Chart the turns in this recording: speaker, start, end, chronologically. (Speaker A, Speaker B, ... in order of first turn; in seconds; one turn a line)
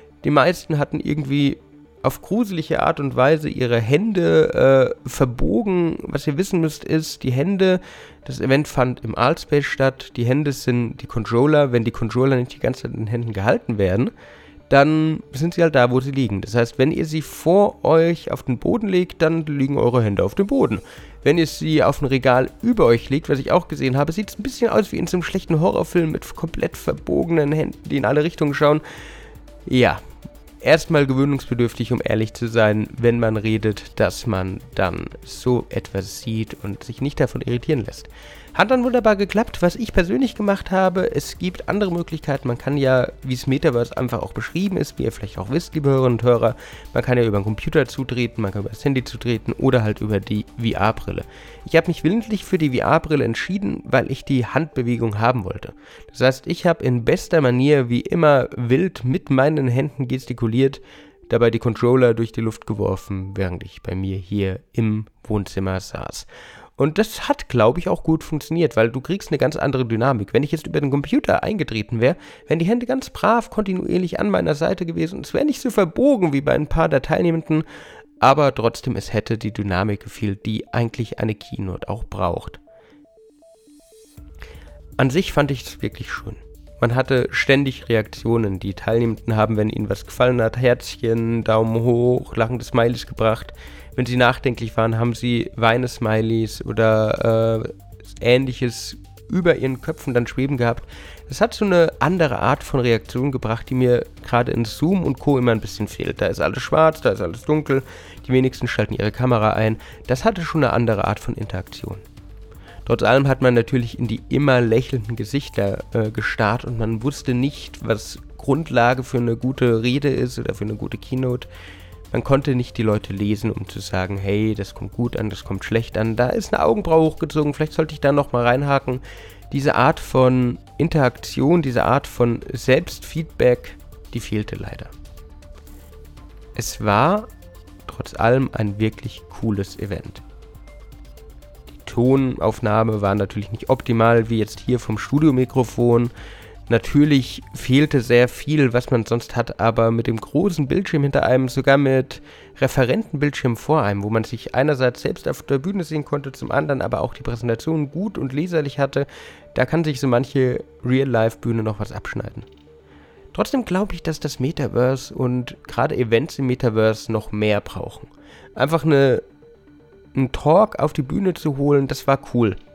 Speaker A: 0.2-14.1
Speaker A: 14.7-28.8
Speaker A: 29.6-30.0
Speaker A: 30.6-77.6
Speaker A: 78.2-82.6
Speaker A: 85.0-112.0
Speaker A: 112.8-121.5
Speaker A: 122.1-134.9
Speaker A: 136.6-137.3
Speaker A: 137.8-140.2
Speaker A: 141.7-146.1
Speaker A: 146.7-162.5
Speaker A: 163.3-169.2
Speaker A: 170.1-172.6